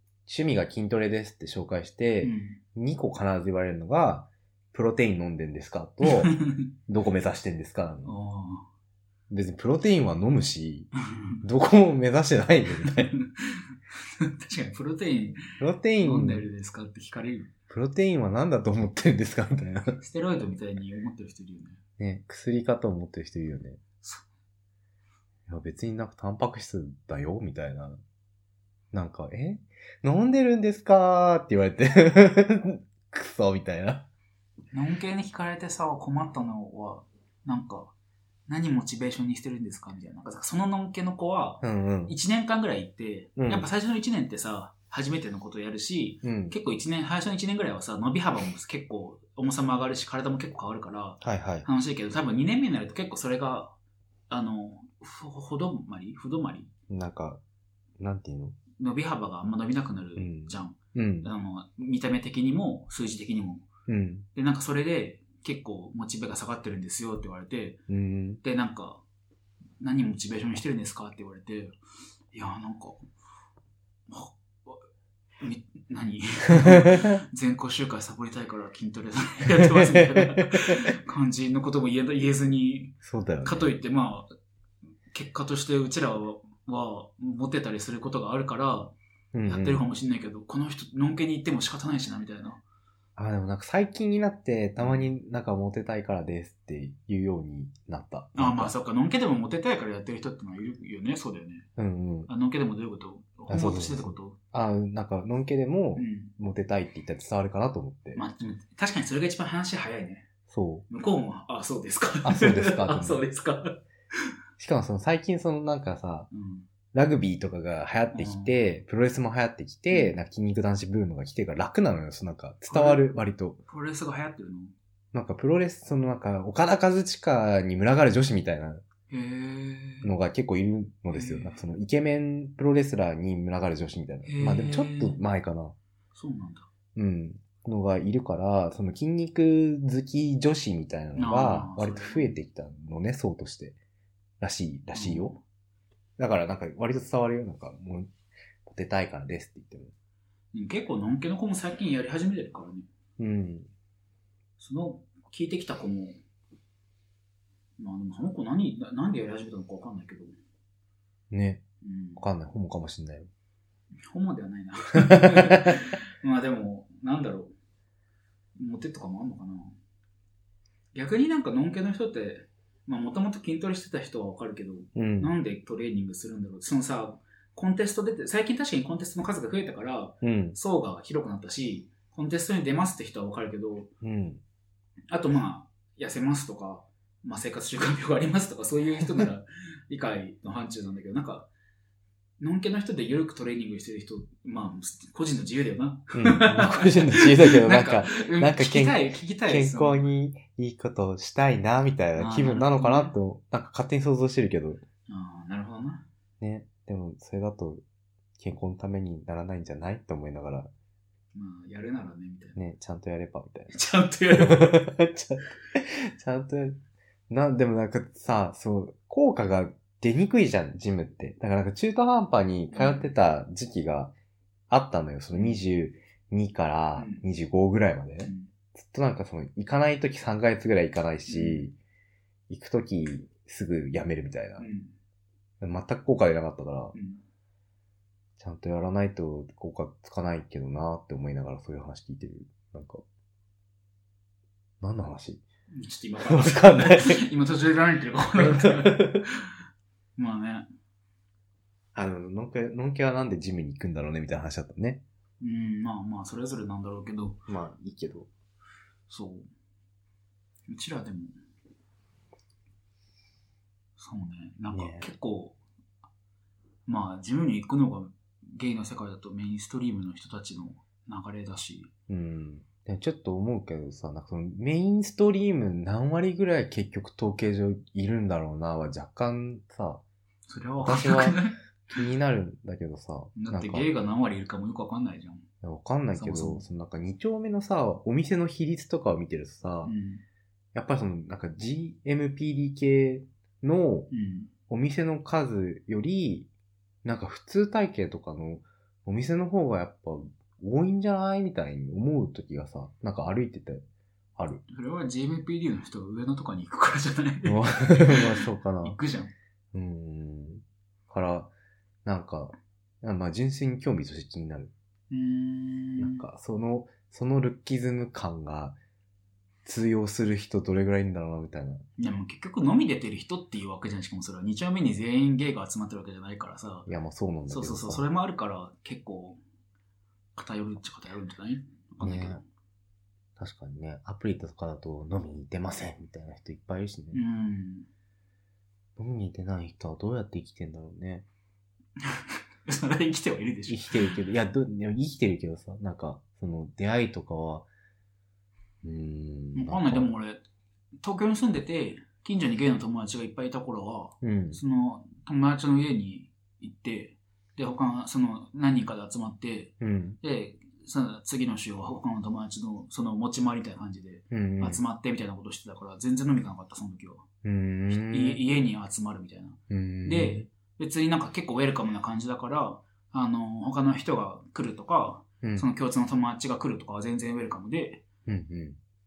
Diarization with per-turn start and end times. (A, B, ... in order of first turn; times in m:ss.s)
0:00.2-0:06.3 A
0:02.2-0:02.6 B
0:06.0-0:06.7 B
0:06.9-0:08.1 A
0:08.0-0:08.7 B
0:09.3-0:10.9 A
0:11.1-0:11.4 B
0:11.4-0:13.1 A
0:12.8-0:17.5 B
0:15.5-0:16.4 A
0:17.7-0:20.0 A
0:20.0-0:21.8 B
0:22.0-0:23.8 A
0:25.5-0:28.0 A
0:28.9-0:34.0 A
0:34.7-0:37.9 B
0:38.5-0:53.7 B
0:41.6-0:42.1 A
0:43.4-0:43.7 A
0:46.2-0:46.5 A
0:51.2-0:51.6 A
0:54.3-0:56.7 B
0:56.9-0:57.4 A
0:58.0-0:58.6 A
0:58.8-1:03.6 B
1:00.2-1:01.3 A
1:03.9-1:04.2 A
1:04.3-1:07.8 B
1:07.9-1:08.4 A
1:08.4-1:09.0 B
1:09.8-1:11.8 B
1:12.3-1:13.0 B
1:14.1-1:14.8 B
1:15.4-1:24.3 B
1:16.6-1:17.2 A
1:19.6-1:20.4 A
1:23.0-1:23.7 A
1:25.1-1:28.9 B
1:29.3-1:29.8 A
1:29.4-1:32.6 B
1:33.2-1:38.7 A
1:34.8-1:35.1 B
1:38.4-1:41.7 B
1:41.8-1:42.3 A
1:42.3-1:44.4 B
1:43.5-1:48.2 A
1:46.0-1:46.3 B
1:48.1-1:50.2 B
1:50.5-1:50.8 A
1:50.9-1:53.8 B
1:52.2-1:53.2 A
1:54.6-1:56.3 A
1:56.3-1:56.7 B
1:56.9-2:03.6 A
1:58.1-1:58.6 B
2:02.7-2:03.0 B
2:03.7-2:04.7 B
2:05.1-2:08.8 A
2:09.1-2:10.1 B
2:10.0-2:15.7 A
2:11.1-2:11.6 B
2:14.2-2:15.2 B
2:16.1-2:16.7 B
2:16.9-2:23.8 A
2:21.2-2:22.4 B
2:24.4-2:25.4 A
2:24.9-2:25.4 B
2:26.2-2:28.1 A
2:28.6-2:29.9 A
2:30.5-2:32.9 B
2:33.2-2:33.7 A
2:34.6-2:36.2 B
2:37.8-2:40.3 B
2:41.3-2:41.6 A
2:41.8-2:42.2 B
2:42.2-2:43.3 A
2:44.1-2:47.5 B
2:45.0-2:45.7 A
2:48.6-2:49.8 B
2:50.9-3:03.9 B
2:55.0-2:55.3 A
3:00.2-3:00.6 A
3:04.0-3:04.4 A
3:05.1-3:11.5 B
3:12.4-3:20.1 B
3:16.1-3:24.8 A
3:22.2-3:23.1 B
3:25.1-3:26.0 B
3:26.4-3:27.8 A
3:28.4-3:30.7 A
3:31.3-3:32.6 B
3:32.6-3:33.7 A
3:33.7-3:34.8 B
3:34.3-3:36.8 A
3:37.3-3:44.1 A
3:42.7-3:43.1 B
3:44.7-3:51.7 A
3:47.0-3:47.2 B
3:48.2-3:48.5 B
3:51.3-3:51.7 B
3:52.5-3:54.6 A
3:54.6-3:54.9 B
3:55.6-3:56.9 A
3:56.9-3:57.2 B
3:58.4-4:03.0 A
4:04.8-4:05.4 A
4:05.7-4:09.5 B
4:06.2-4:07.2 A
4:08.4-4:09.3 A
4:10.2-4:10.7 B
4:11.9-4:15.0 A
4:15.4-4:17.4 B
4:17.5-4:18.3 A
4:19.1-4:19.5 B
4:20.7-4:21.3 B
4:24.0-4:25.6 B
4:24.7-4:25.1 A
4:26.9-4:31.9 B
4:32.1-4:40.0 A
4:40.5-4:41.6 B
4:40.8-4:41.4 A
4:41.9-4:43.9 A
4:43.4-4:45.4 B
4:45.6-4:49.9 A
4:46.1-4:46.6 B
4:49.8-4:50.2 B
4:50.7-4:54.1 A
4:54.1-4:54.5 B
4:54.7-4:56.5 A
4:57.0-5:03.8 A
5:04.4-5:04.6 A
5:04.7-5:09.3 B
5:07.4-5:09.0 A
5:09.7-5:11.5 A
5:12.0-5:14.7 A
5:15.1-5:16.2 B
5:16.0-5:18.8 A
5:19.6-5:21.8 A
5:22.0-5:26.9 B
5:26.9-5:28.0 A
5:27.5-5:29.4 B
5:30.4-5:32.4 B
5:32.0-5:32.4 A
5:33.4-5:37.2 A
5:37.1-5:37.9 B
5:39.0-5:41.2 A
5:42.0-5:44.1 B
5:43.7-5:47.7 A
5:48.8-5:50.1 A
5:49.5-5:50.4 B
5:51.0-6:07.2 B
5:54.2-5:54.6 A
5:59.8-6:00.2 A
6:04.3-6:04.8 A
6:07.4-6:08.4 A
6:07.9-6:18.0 B
6:09.7-6:10.5 A
6:15.4-6:15.7 A
6:18.2-6:18.8 A